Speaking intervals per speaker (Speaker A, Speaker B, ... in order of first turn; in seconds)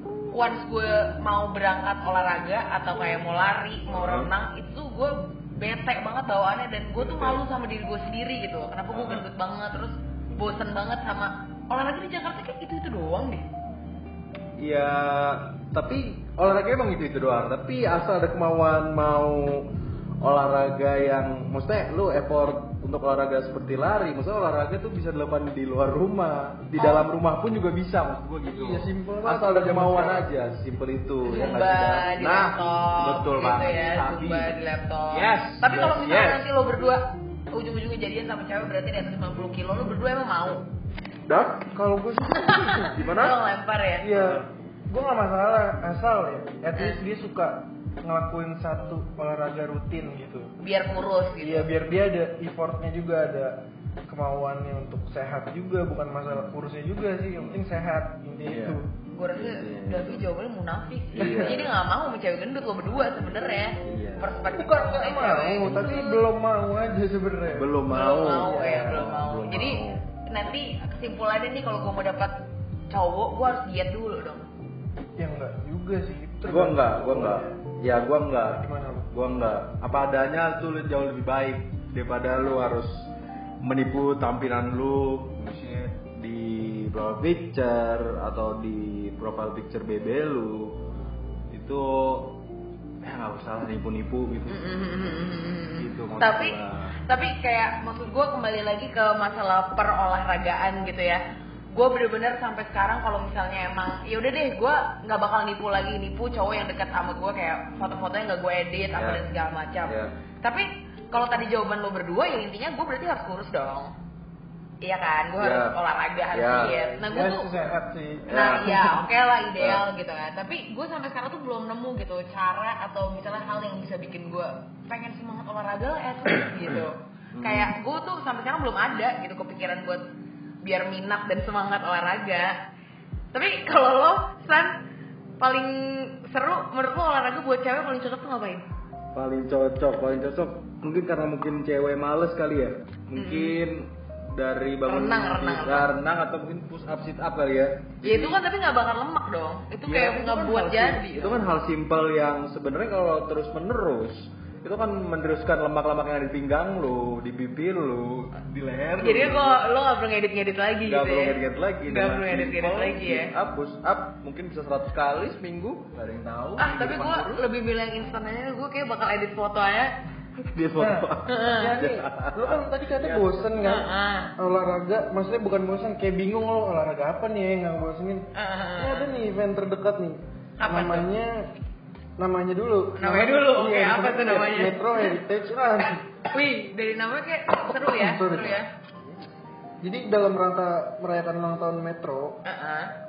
Speaker A: 0.3-13.5, 26.8-27.1, 31.2-40.6, 42.4-44.1, 46.8-47.0, 50.6-51.7, 59.1-66.2, 67.9-72.3, 72.9-74.4, 94.5-113.9, 114.8-117.5, 118.3-130.0, 130.6-132.6, 133.3-134.8, 135.4-138.6, 143.1-143.6, 144.8-145.9, 148.0-151.5, 159.0-163.3, 166.6-169.9, 171.2-171.8, 173.6-174.3, 178.3-179.2, 180.6-181.1, 183.0-185.2, 186.3-188.7, 192.4-192.9
Speaker B: 3.9-4.3, 7.0-7.4, 8.9-9.2, 14.6-19.7, 20.2-34.5, 35.1-36.5, 41.3-42.0, 42.8-43.4, 44.2-44.5, 58.4-58.8, 59.3-60.2, 61.1-61.8, 63.8-64.4, 67.5-70.0, 76.4-83.1, 83.6-90.8, 91.5-92.3, 93.0-94.6, 95.8-96.9, 108.9-109.2, 109.9-110.1, 115.4-115.8, 116.3-117.2, 118.2-118.8, 119.6-119.8, 127.3-127.7, 139.1-148.4, 149.8-159.6, 160.8-167.4, 170.4-173.5
Speaker C: 28.5-30.3, 41.9-42.9, 44.0-50.5, 51.4-53.6, 54.1-58.9, 61.1-61.5, 64.5-67.7, 68.5-68.9, 75.2-77.6, 78.3-79.1, 117.0-119.0, 170.8-178.2, 178.8-181.5, 182.2-186.0, 187.8-188.6, 189.8-192.4